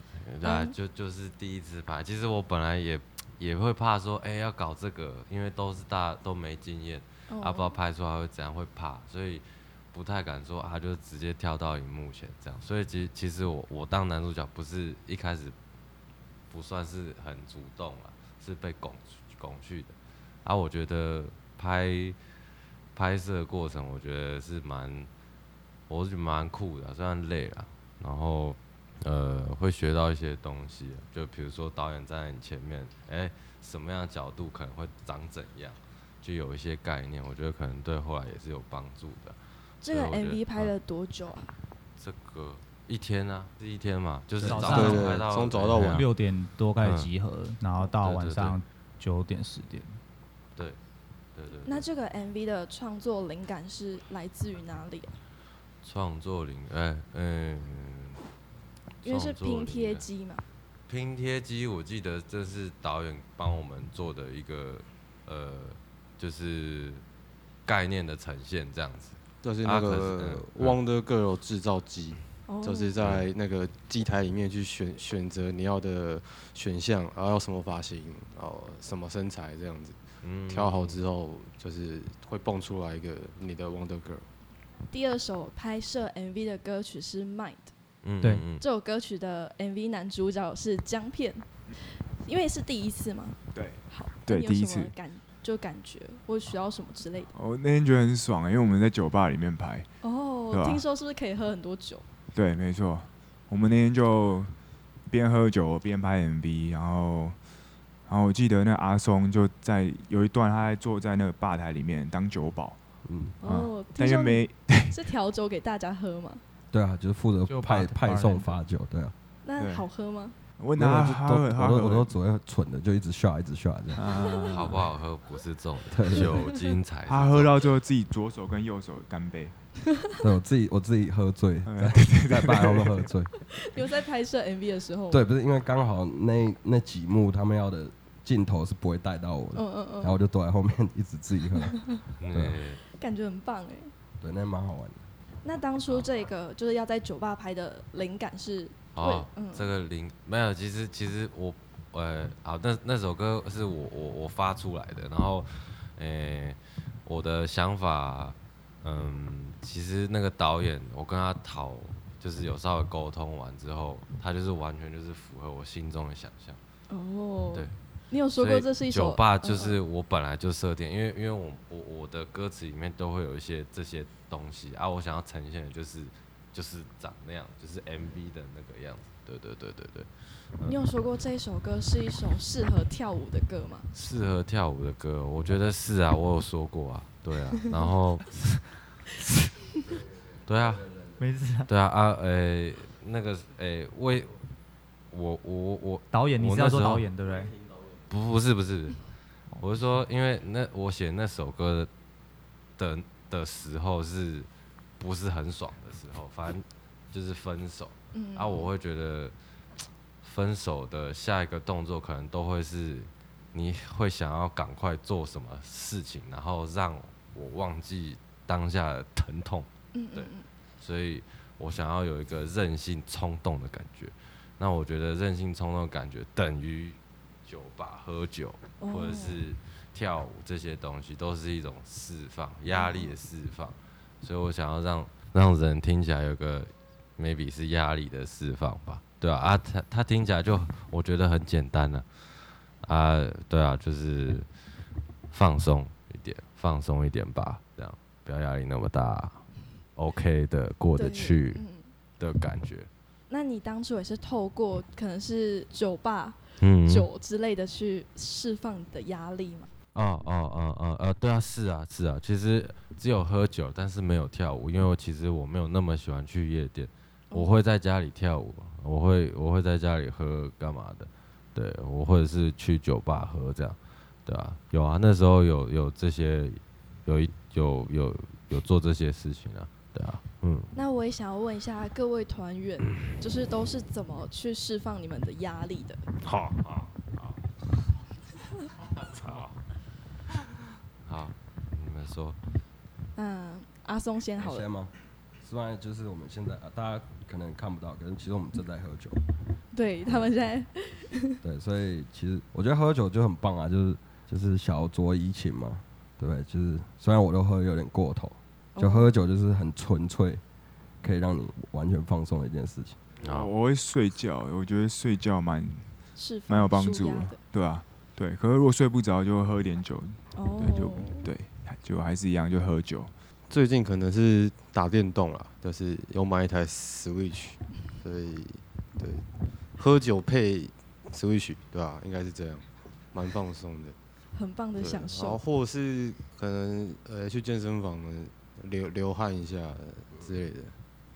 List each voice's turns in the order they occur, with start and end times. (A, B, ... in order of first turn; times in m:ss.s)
0:00.2-0:15.6 A
0:00.4-0:00.7 B
0:07.3-0:07.8 B
0:16.5-0:22.2 A
0:23.0-0:25.1 A
0:25.9-0:40.7 A
0:39.8-0:41.5 B
0:42.0-0:46.1 A
0:44.4-0:46.0 C
0:44.4-0:45.2 D
0:45.9-0:50.0 D
0:46.8-0:47.1 A
0:47.8-0:48.6 A
0:51.4-0:51.9 A
0:51.7-0:55.2 B
0:55.8-0:58.2 A
0:59.0-1:00.1 A
0:59.0-1:00.4 B
1:00.9-1:07.0 A
1:07.7-1:10.8 A
1:09.4-1:24.3 C
1:12.5-1:13.0 B
1:20.2-1:21.0 A
1:24.9-1:27.7 B
1:28.0-1:28.6 A
1:28.6-1:31.5 B
1:32.2-1:37.3 B
1:33.5-1:34.9 E
1:37.3-1:39.9 E
1:40.0-1:42.0 B
1:40.5-1:40.8 E
1:42.3-1:44.5 E
1:45.1-1:47.4 E
1:48.1-1:52.8 E
1:53.1-1:53.4 F
1:53.4-1:55.0 E
1:53.4-1:56.4 B
1:56.7-1:59.2 F
1:57.5-1:58.5 D
1:59.4-2:00.4 B
1:59.6-1:59.9 E
2:00.6-2:02.1 E
2:00.8-2:04.0 F
2:03.9-2:04.9 E
2:04.1-2:04.6 B
2:04.5-2:07.6 A
2:05.9-2:06.4 F
2:06.3-2:06.6 B
2:07.1-2:09.6 E
2:10.2-2:13.3 F
2:11.6-2:13.1 E
2:13.5-2:15.2 B
2:15.1-2:21.8 F
2:19.6-2:20.2 B
2:21.6-2:22.0 B
2:22.2-2:22.8 A
2:22.3-2:22.6 F
2:23.0-2:23.9 B
2:24.2-2:25.0 F
2:25.4-2:29.7 B
2:29.0-2:46.6 A
2:46.9-2:49.8 B
2:48.4-3:00.8 A
3:00.7-3:03.9 B
3:03.9-3:08.4 A
3:10.4-3:10.9 A
3:11.2-3:11.7 D
3:11.7-3:14.5 A
3:15.1-3:17.1 A
3:16.1-3:17.5 D
3:18.1-3:19.1 A
3:19.6-3:21.9 A
3:22.8-3:29.3 A
3:28.1-3:28.7 B
3:30.2-4:04.5 A
3:40.0-3:40.5 B
3:48.8-3:49.4 B
3:52.7-3:53.2 B
4:05.3-4:11.6 A
4:11.0-4:11.9 B
4:12.2-4:12.9 A
4:13.3-4:19.7 B
4:16.6-4:17.1 A
4:20.0-4:40.7 A
4:40.8-4:46.0 B
4:46.2-4:47.4 A
4:49.0-4:49.6 A
4:51.0-4:52.4 A
4:53.2-4:54.7 B
4:54.4-4:59.2 F
4:59.7-5:01.4 B
5:00.1-5:00.3 F
5:01.4-5:10.4 F
5:08.8-5:09.1 B
5:11.0-5:13.0 F
5:13.2-5:13.5 A
5:13.2-5:15.9 E
5:16.2-5:17.4 B
5:16.5-5:23.1 E
5:20.4-5:21.3 B
5:23.5-5:29.2 C
5:29.8-5:34.0 C
5:34.3-5:35.4 B
5:34.8-5:40.8 C